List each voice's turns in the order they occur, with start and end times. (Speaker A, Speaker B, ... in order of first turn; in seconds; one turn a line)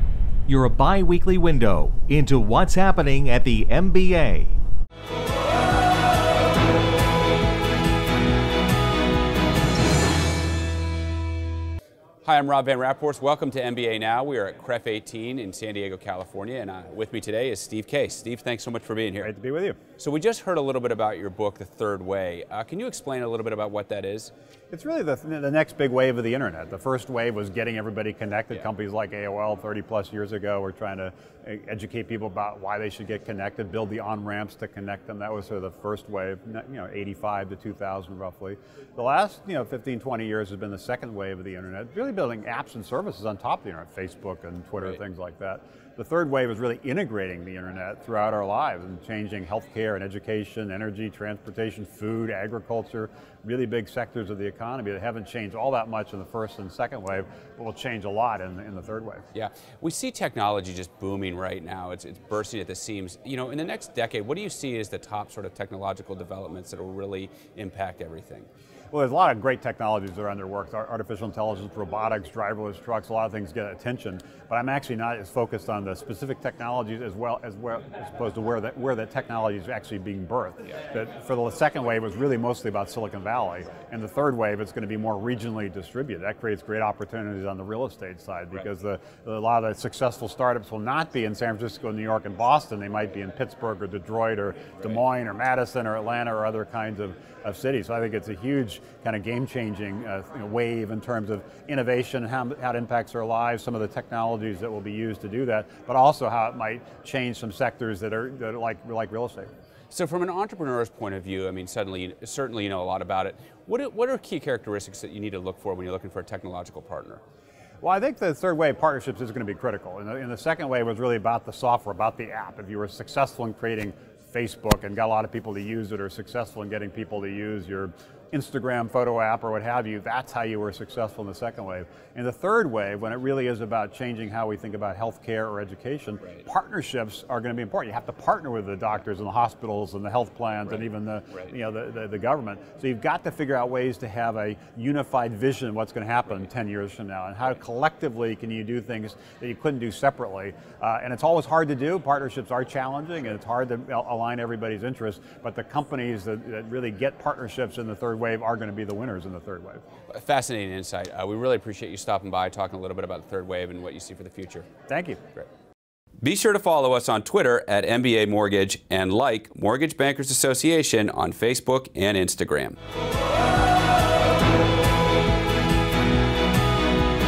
Speaker A: 0.5-4.6
Speaker B: 12.2-19.3
Speaker C: 19.2-19.8
Speaker B: 20.0-24.3
Speaker C: 24.7-59.2
Speaker B: 59.3-68.5
Speaker C: 68.9-109.5
Speaker B: 109.9-117.2
Speaker C: 117.8-159.8
Speaker B: 160.1-164.7
Speaker C: 164.9-165.2
Speaker B: 166.2-172.8